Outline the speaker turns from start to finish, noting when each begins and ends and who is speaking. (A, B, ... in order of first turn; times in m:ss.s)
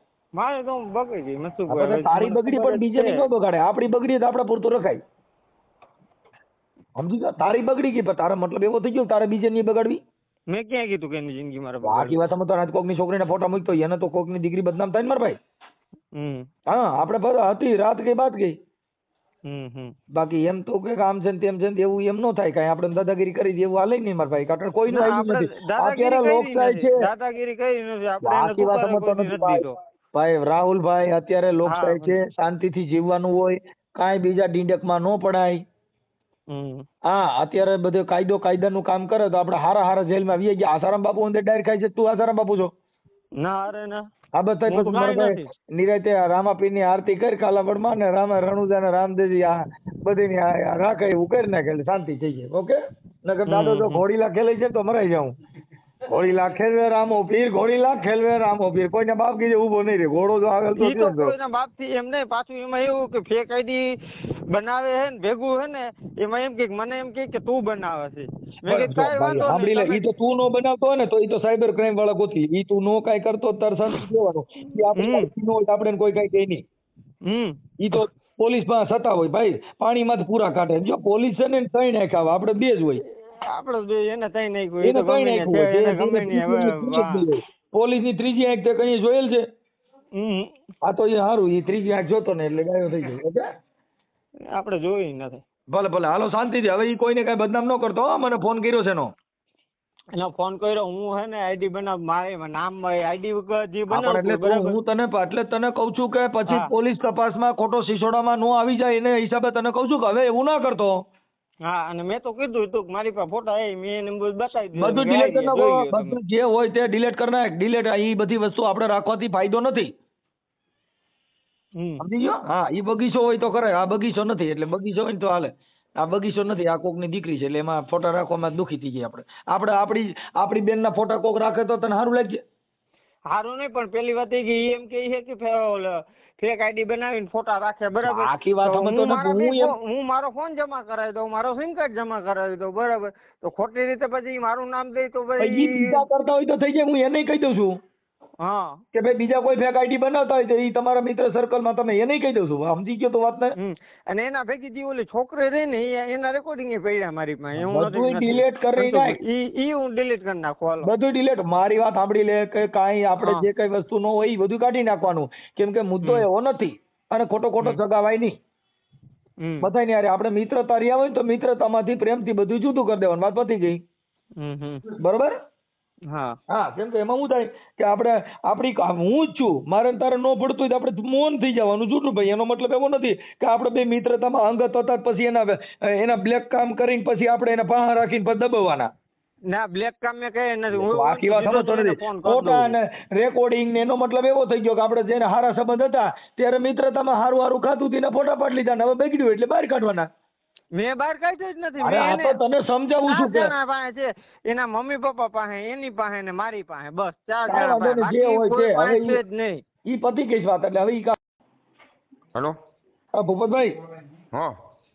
0:00.3-0:03.2 A
0:01.7-0:05.0 B
0:07.0-0:10.0 B
0:10.5-0:12.2 A
0:11.8-0:15.4 B
0:16.1-0:16.5 A
0:16.7-0:18.5 B
0:19.4-0:20.0 A
0:20.1-0:27.0 B
0:24.9-0:29.8 A
0:28.2-0:35.6 B
0:31.6-0:32.2 A
0:36.5-0:36.8 A
0:37.0-0:42.7 B
0:43.4-0:44.1 A
0:44.3-0:55.3 B
0:44.7-0:45.5 A
0:53.5-0:54.0 A
0:56.1-1:01.3 B
1:00.8-1:04.0 A
1:04.5-1:10.1 A
1:08.6-1:16.6 B
1:14.9-1:15.3 A
1:17.2-1:17.6 A
1:17.8-1:23.0 B
1:23.4-1:27.3 A
1:24.8-1:29.4 B
1:30.1-1:30.5 A
1:30.8-1:33.4 B
1:34.5-1:35.4 A
1:35.7-1:39.1 B
1:40.1-1:44.8 A
1:43.9-1:51.0 B
1:51.6-1:56.2 A
1:54.8-1:59.9 B
2:01.8-2:02.0 A
2:02.0-2:12.4 B
2:13.3-2:26.0 A
2:18.0-2:19.7 B
2:25.4-2:27.8 B
2:28.4-2:28.8 A
2:28.9-2:33.5 B
2:33.6-2:40.9 A
2:37.5-2:39.2 B
2:40.8-2:48.4 B
2:49.4-2:49.7 A
2:49.6-2:53.8 B
2:54.4-2:54.9 A
2:54.9-2:55.3 B
2:56.1-2:56.4 A
2:56.5-3:08.9 B
3:09.5-3:12.7 A
3:10.7-3:20.1 B
3:20.7-3:22.4 A
3:21.8-3:23.5 B
3:23.1-3:29.6 A
3:27.5-3:29.2 B
3:29.9-3:31.2 B
3:33.1-3:33.7 B